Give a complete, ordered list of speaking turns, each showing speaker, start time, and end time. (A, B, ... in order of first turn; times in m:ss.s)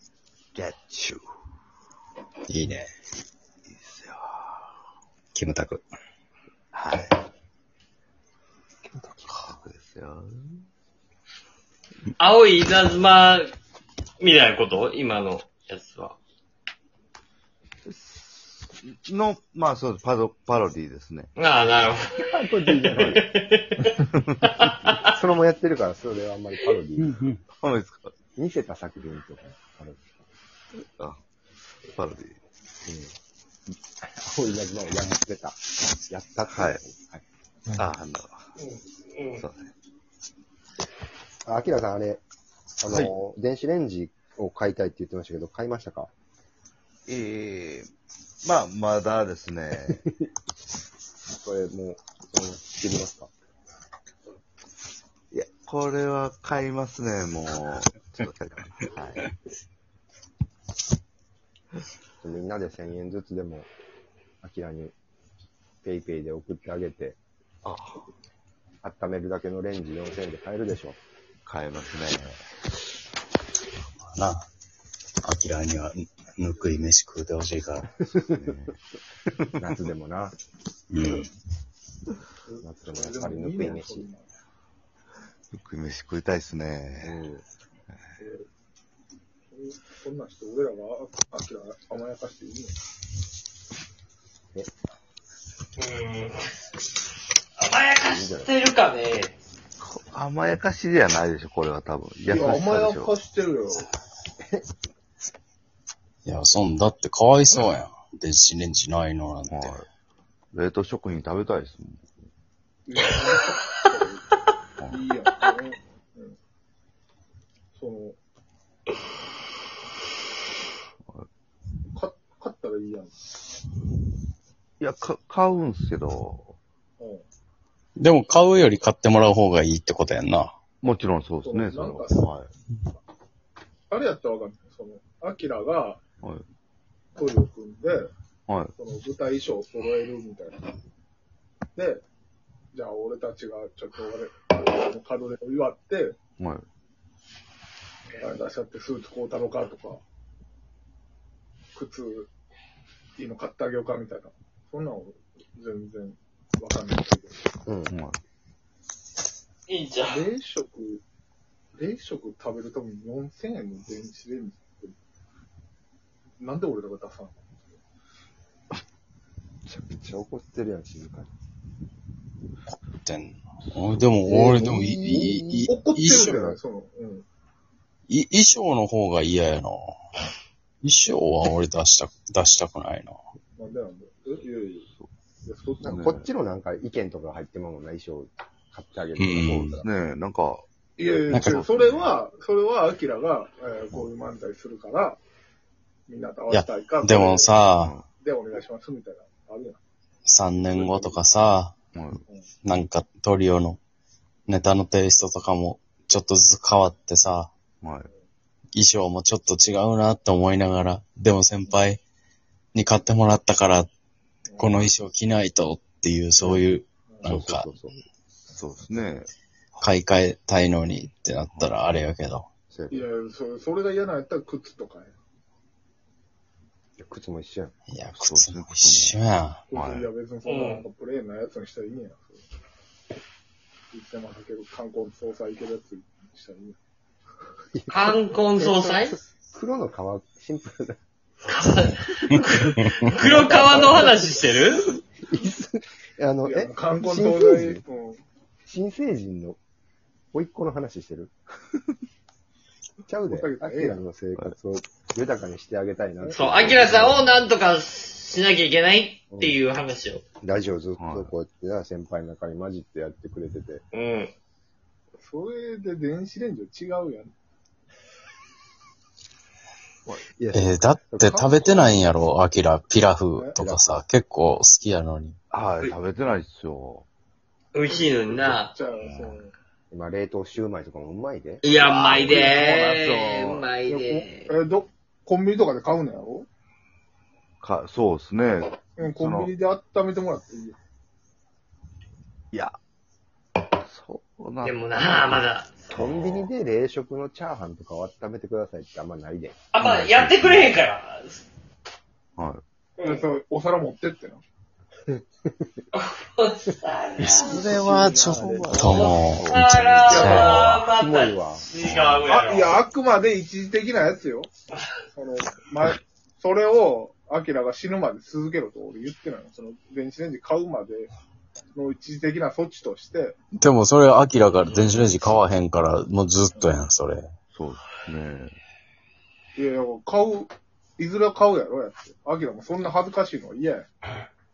0:00.5-0:01.3 A
0:02.5-0:02.9 B
0:03.7-0:04.7 A
0:05.3-0:05.9 B
0:06.7-0:07.2 A
0:09.4-0:10.6 A
0:12.2-0:13.5 C
0:14.2-0:16.2 C
0:17.8-0:21.3 A
0:21.4-0:25.0 C
0:22.2-0:23.2 D
0:25.1-0:27.2 D
0:27.0-0:27.4 B
0:27.5-0:28.1 A
0:28.4-0:30.0 D
0:31.9-0:32.4 A
0:32.9-0:33.1 D
0:34.0-0:37.2 D
0:36.5-0:36.8 A
0:37.8-0:38.5 A
0:38.6-0:39.4 C
0:39.3-0:39.7 A
0:41.5-0:42.2 D
0:42.8-0:46.1 D
0:42.9-0:43.1 A
0:47.1-0:47.9 A
0:48.4-0:50.0 A
0:49.9-0:50.2 D
0:51.4-0:53.3 D
0:55.3-0:59.3 A
1:02.2-1:03.7 D
1:04.4-1:04.9 D
1:05.8-1:07.2 D
1:07.6-1:08.1 A
1:08.8-1:11.0 D
1:11.4-1:12.4 A
1:14.2-1:14.5 B
1:15.2-1:18.0 B
1:18.1-1:18.8 A
1:19.3-1:19.6 A
1:19.6-1:20.4 D
1:20.9-1:21.3 B
1:22.5-1:24.3 E
1:22.6-1:24.1 D
1:25.5-1:27.2 A
1:27.0-1:27.4 D
1:28.2-1:28.5 E
1:29.5-1:32.8 E
1:35.8-1:36.4 C
1:37.6-1:39.4 C
1:38.0-1:38.5 D
1:39.8-1:43.1 A
1:42.3-1:43.9 E
1:46.2-1:49.8 B
1:49.5-1:49.9 A
1:50.5-1:52.1 A
1:52.9-1:54.2 E
1:54.9-1:56.4 E
1:57.7-1:58.2 E
2:01.9-2:03.2 E
2:04.8-2:06.6 A
2:07.0-2:07.2 E
2:08.0-2:10.5 B
2:10.8-2:12.5 A
2:11.4-2:12.3 E
2:13.9-2:16.0 E
2:17.2-2:18.1 E
2:18.5-2:18.7 A
2:18.8-2:20.7 E
2:21.8-2:22.0 E
2:22.7-2:26.2 E
2:26.4-2:26.6 A
2:28.1-2:30.0 E
2:31.7-2:32.3 E
2:33.2-2:37.4 E
2:37.7-2:37.9 D
2:37.9-2:38.2 A
2:39.7-2:40.2 C
2:40.1-2:41.0 E
2:41.8-2:45.0 E
2:46.4-2:47.4 E
2:49.7-2:51.3 D
2:53.0-2:56.3 B
2:54.2-2:56.6 D
2:55.7-2:57.3 E
2:58.1-3:00.0 B
3:00.8-3:03.2 B
3:03.6-3:04.9 E
3:05.4-3:06.0 E
3:05.8-3:09.9 D
3:05.8-3:06.2 A
3:09.2-3:09.8 B
3:09.8-3:12.1 A
3:11.0-3:15.2 E
3:11.3-3:11.7 B
3:16.1-3:17.6 E
3:16.5-3:18.0 B
3:17.8-3:18.0 A
3:18.2-3:19.8 E
3:20.3-3:21.8 B
3:20.6-3:21.2 E
3:21.9-3:22.2 A
3:22.6-3:23.8 B
3:24.5-3:27.5 B
3:27.8-3:28.1 A
3:28.7-3:32.0 B
3:32.7-3:33.9 B
3:34.5-3:34.9 E
3:34.6-3:37.7 B
3:37.1-3:37.4 E
3:37.3-3:38.0 D
3:38.5-3:39.8 A
3:39.8-3:42.5 B
3:41.5-3:41.8 A
3:42.7-3:43.0 A
3:42.9-3:45.1 E
3:47.0-3:47.8 D
3:47.9-3:49.6 B
3:48.0-3:49.2 A
3:49.7-3:52.4 E
3:49.7-3:50.1 A
3:50.5-3:50.8 C
3:53.9-3:56.8 E
3:57.8-3:58.2 D
3:57.9-3:59.2 C
3:58.6-3:59.0 E
3:59.5-4:01.0 D
4:01.5-4:04.9 C
4:03.2-4:04.3 D
4:05.3-4:07.8 D
4:06.4-4:08.2 E
4:08.7-4:09.6 D
4:10.3-4:11.3 D
4:13.1-4:17.5 D
4:13.3-4:14.0 E
4:16.3-4:20.2 C
4:19.3-4:19.6 D
4:20.4-4:23.8 D
4:21.0-4:21.3 A
4:23.9-4:24.3 C
4:25.2-4:27.3 E
4:30.4-4:32.1 D
4:30.5-4:35.4 B
4:33.6-4:34.0 D
4:35.5-4:37.1 A
4:37.7-4:38.7 C
4:37.8-4:39.5 E
4:39.0-4:39.4 A
4:39.9-4:41.6 D
4:41.6-4:44.5 C
4:41.8-4:43.7 A
4:42.0-4:42.9 E
4:43.9-4:46.5 E
4:47.6-4:49.5 A
4:49.0-4:50.8 E
4:52.5-4:52.8 A
4:53.8-4:55.4 A
4:54.6-4:55.9 C
4:55.9-4:56.5 A
4:55.9-4:59.6 D
4:59.7-5:01.4 C
4:59.8-5:00.8 A
5:02.4-5:02.6 A
5:03.0-5:03.2 C
5:03.0-5:04.4 E
5:05.1-5:05.7 D
5:05.9-5:07.6 C
5:07.2-5:10.9 B
5:07.5-5:09.6 A
5:07.5-5:08.7 D
5:08.8-5:12.8 C
5:10.1-5:10.6 A
5:10.1-5:11.7 D
5:11.9-5:12.3 A
5:12.3-5:14.5 E
5:15.1-5:21.1 E
5:21.7-5:23.4 E
5:23.6-5:27.3 B
5:27.5-5:28.6 A
5:29.6-5:33.9 E